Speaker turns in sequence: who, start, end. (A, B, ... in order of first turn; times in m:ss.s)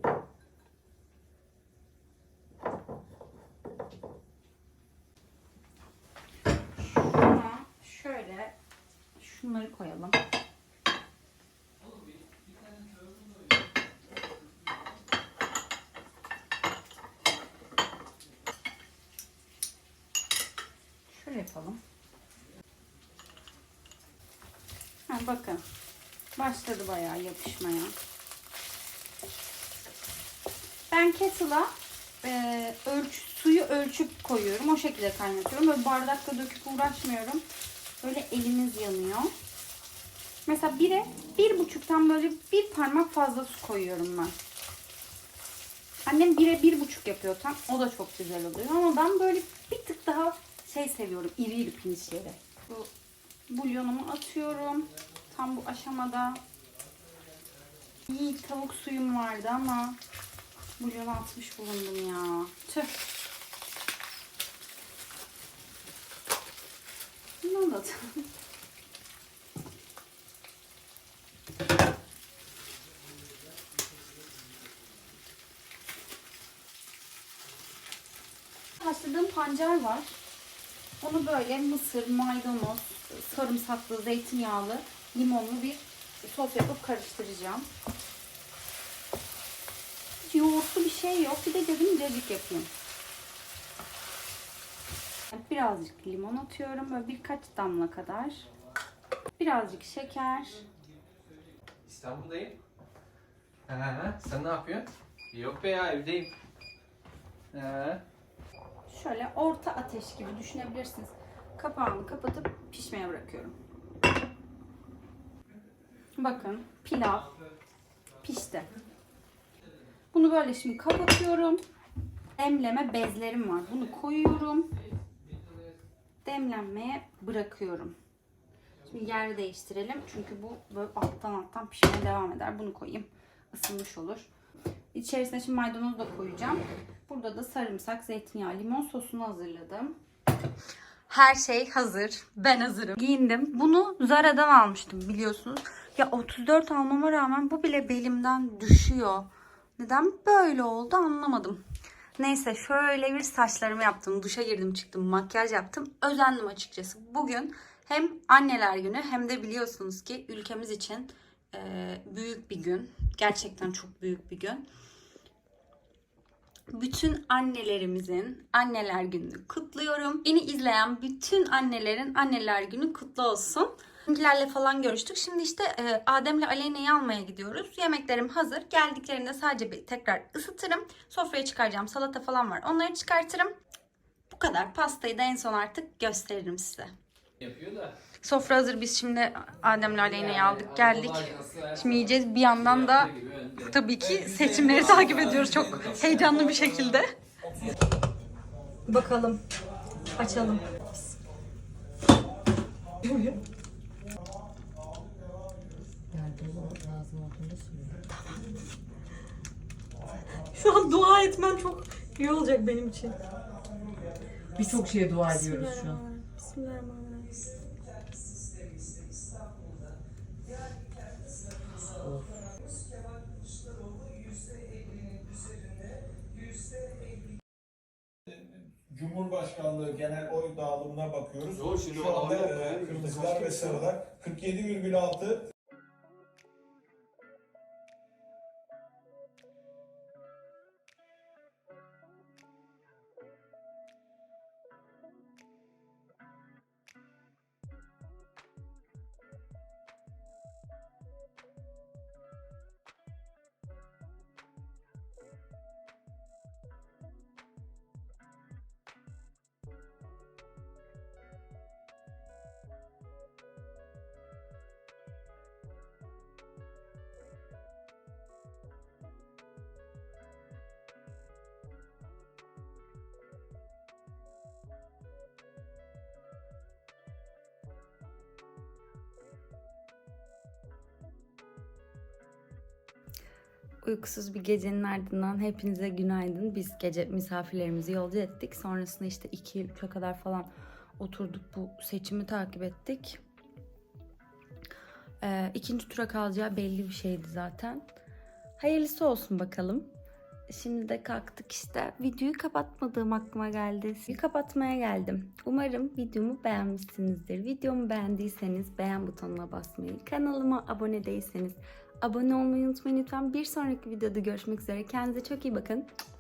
0:06.8-0:08.6 A
0:09.2-0:10.2 A
0:11.8-0:13.8 B
0:21.1-0:21.8 A
0:25.1-0:25.6 A
0:26.4-0:28.0 A
0:30.9-0:37.4 A
0:38.0-0:39.3 A
0:40.5-0:44.4 A
0:46.1-0:52.9 A
0:53.5-0:56.4 A
0:57.0-0:57.8 B
0:58.1-1:00.0 A
1:00.8-1:02.9 A
1:07.4-1:08.2 A
1:18.8-1:20.2 A
1:21.0-1:27.7 A
1:30.2-1:32.7 A
1:35.3-1:38.4 A
1:39.4-1:40.6 A
1:40.6-1:41.2 B
1:41.8-1:42.6 B
1:43.7-1:46.3 B
1:47.5-1:48.0 B
1:48.9-1:53.5 A
1:56.2-1:57.3 A
1:57.3-1:57.5 B
1:58.2-1:58.7 A
2:00.1-2:01.6 A
2:02.4-2:04.7 A
2:03.7-2:05.8 B
2:06.2-2:08.0 A
2:08.9-2:14.3 A
2:14.9-2:20.0 A
2:21.1-2:31.6 A
2:32.2-2:44.6 A
2:46.7-3:03.6 A
3:04.3-3:06.9 A
3:07.4-3:08.0 B
3:08.2-3:17.1 A
3:10.1-3:13.8 B
3:14.4-3:16.4 B
3:15.0-3:15.3 C
3:18.9-3:19.4 A
3:20.2-3:21.1 A
3:23.0-3:23.4 A
3:26.1-3:28.1 D
3:30.5-3:33.2 A
3:34.5-3:36.0 D
3:35.3-3:37.4 A
3:41.9-3:42.4 D
3:48.3-3:55.5 C
3:51.5-3:53.8 B
4:43.8-4:53.2 A
4:55.2-4:57.9 A
4:58.6-4:59.9 A
5:00.5-5:15.9 A